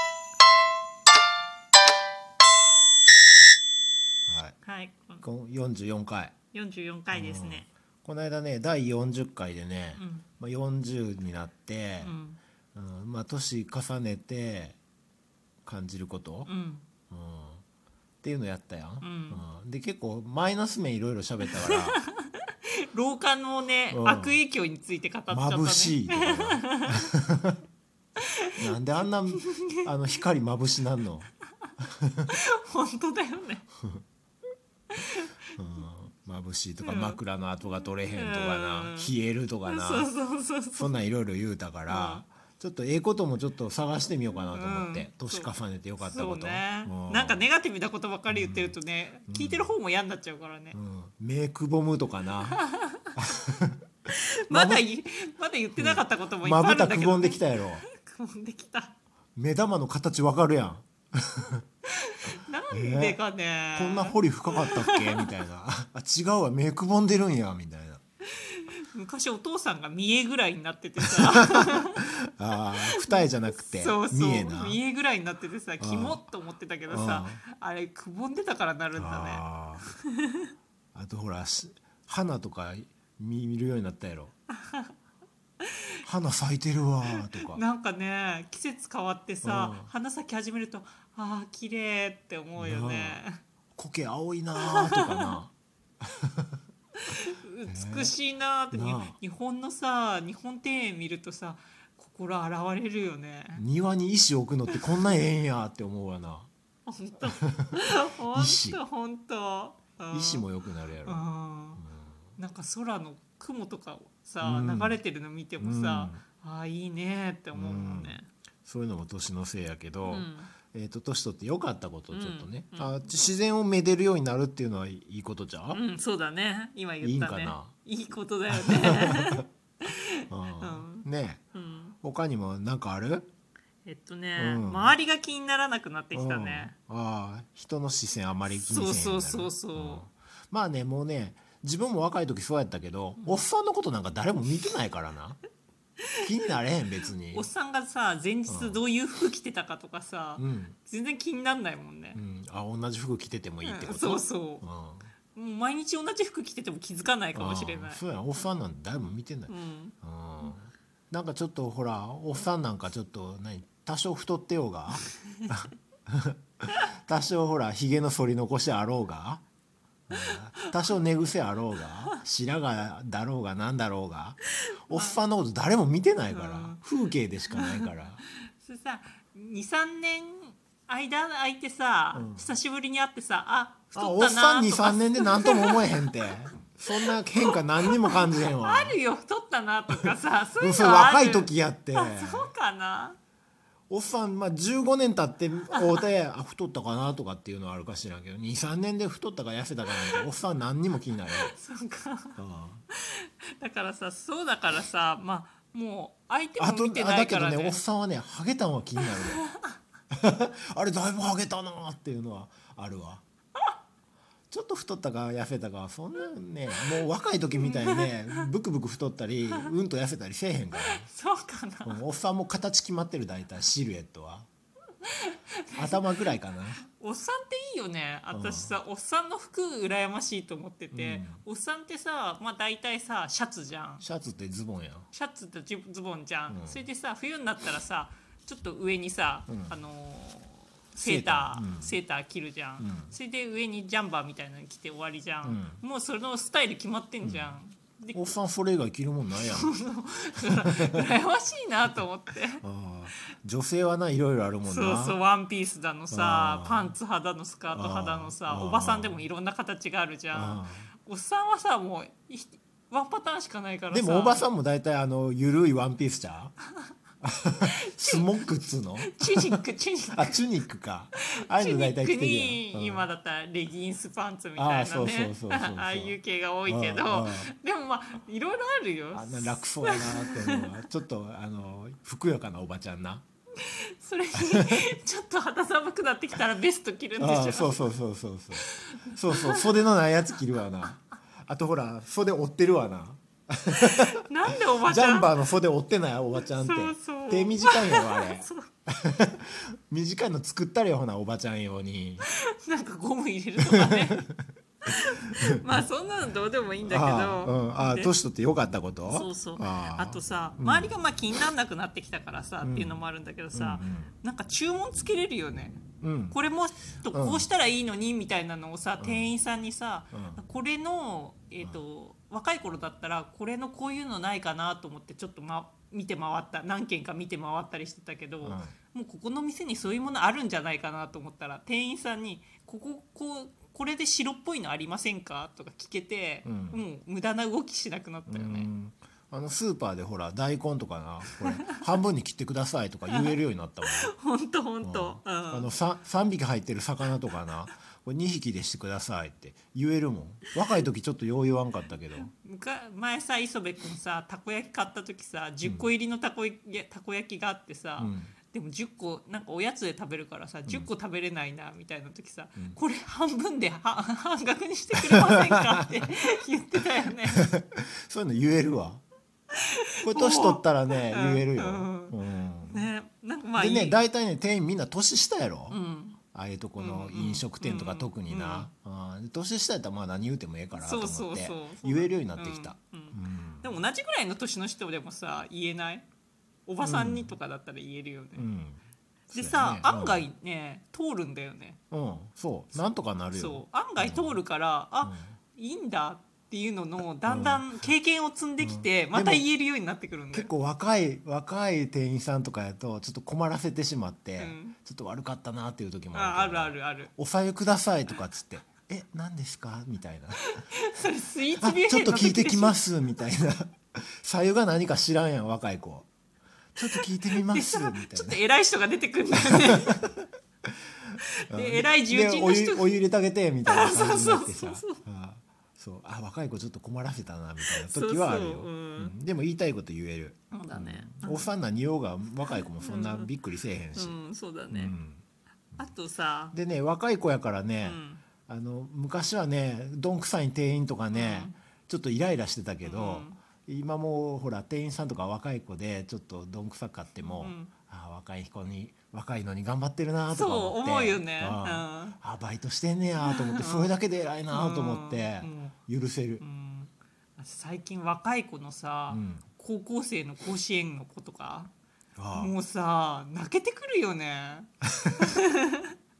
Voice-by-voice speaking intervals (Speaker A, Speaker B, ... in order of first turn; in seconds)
Speaker A: 4.3-4.5, 5.2-6.3, 7.1-12.1, 12.7-14.8, 15.7-16.5, 17.1-17.6, 18.2-22.0, 23.9-24.4, 25.3-27.6, 28.6-32.3, 35.6-40.1, 40.8-47.4, 48.3-48.8, 49.3-49.7, 50.7-52.6, 53.2-53.8, 54.5-54.8, 55.8-57.8, 59.4-61.6, 62.7-63.2, 63.8-68.0, 71.0-74.8, 75.8-76.3, 76.9-77.4, 79.0-79.9, 80.9-84.3, 86.0-87.6, 89.4-89.9, 92.6-93.2, 93.8-96.6, 97.7-98.1, 98.7-99.2, 103.5-106.5, 107.3-107.8, 108.3-108.8, 110.1-111.3, 111.8-112.3, 114.4-115.0, 115.6-116.2, 117.5-125.8, 127.0-127.7, 128.6-129.4, 130.3-131.4, 132.0-133.3, 134.4-134.9, 136.1-145.4, 146.2-147.5, 148.5-148.8, 150.4-150.8, 152.1-155.1, 157.3-169.4, 170.1-178.2, 182.1-182.5, 183.9-189.0, 190.6-192.5, 193.9-201.5, 202.4-202.8, 206.6-209.4, 210.1-213.2, 214.5-221.1, 221.8-224.5, 225.8-226.8, 228.3-228.8, 230.9-231.4, 234.0-235.1, 236.5-236.8, 239.5-239.7, 241.0-242.0, 242.8-243.2, 245.4-245.8, 247.2-247.6, 248.1-249.7, 250.4-251.1, 252.6-255.2, 256.1-256.9, 257.7-259.2, 260.3-260.9, 263.9-266.6, 267.2-269.6, 270.1-273.1, 274.6-277.5, 279.1-283.2, 284.4-284.9, 287.2-294.2, 294.8-302.3, 303.7-304.4, 306.9-310.9, 312.6-313.0, 313.5-314.1, 316.0-316.4, 317.1-317.5, 319.0-319.3, 320.1-320.4, 328.4-328.8, 336.4-336.8, 338.3-344.1, 344.8-352.3, 358.0-358.3, 365.0-366.0, 367.4-369.0, 370.0-372.9, 373.6-375.8, 376.3-383.8, 386.8-387.4, 388.4-390.3, 391.9-394.4, 395.0-395.3, 397.3-397.6, 398.6-399.5, 400.3-410.6, 411.6-416.1, 416.8-418.4, 419.5-420.2, 421.5-434.2, 434.7-435.2, 436.5-456.4, 459.1-459.5, 462.2-462.5
Speaker B: 4.6-5.2, 6.5-7.7, 9.9-10.3, 12.0-12.4, 16.5-16.9, 19.0-19.4, 21.7-22.3, 22.8-27.1, 28.2-28.6, 29.3-29.9, 32.3-33.6, 34.9-35.3, 36.8-37.2, 38.1-39.1, 39.6-40.9, 41.9-42.2, 44.5-50.8, 52.6-53.0, 54.5-59.0, 61.9-65.3, 68.3-72.0, 72.9-80.5, 84.6-84.9, 87.4-93.4, 94.6-95.3, 97.0-103.6, 106.9-110.5, 111.0-111.8, 112.4-118.3, 120.0-120.5, 122.1-123.0, 125.7-132.0, 133.8-136.7, 138.5-140.1, 146.0-146.3, 147.3-152.2, 153.6-154.7, 155.3-158.0, 159.5-160.0, 174.9-175.2, 176.3-176.8, 177.6-177.9, 178.6-185.9, 187.4-193.2, 195.7-196.0, 201.3-202.4, 202.9-207.8, 209.0-209.7, 217.6-218.5, 220.8-222.0, 225.0-226.3, 226.8-234.1, 235.1-248.2, 249.4-252.6, 254.6-264.4, 267.9-268.2, 269.0-270.4, 271.2-280.7, 283.6-287.8, 288.6-289.7, 293.8-295.3, 296.5-298.7, 302.2-304.2, 304.9-308.1, 309.1-338.7, 343.1-343.4, 343.9-345.7, 352.2-367.5, 369.5-372.1, 372.7-374.0, 375.7-376.2, 376.8-378.7, 380.7-386.1, 386.7-388.4, 389.3-391.8, 392.8-400.5, 404.4-404.8, 406.1-407.1, 410.4-412.8, 416.9-420.0, 421.5-423.0, 423.6-425.0, 427.6-429.1, 430.5-431.5, 432.5-433.3, 433.9-434.9, 435.8-436.6, 437.8-438.2, 441.1-441.6, 442.8-443.4, 447.2-447.7, 450.3-452.2, 453.2-453.9, 454.5-455.8, 456.4-461.7, 462.3-465.9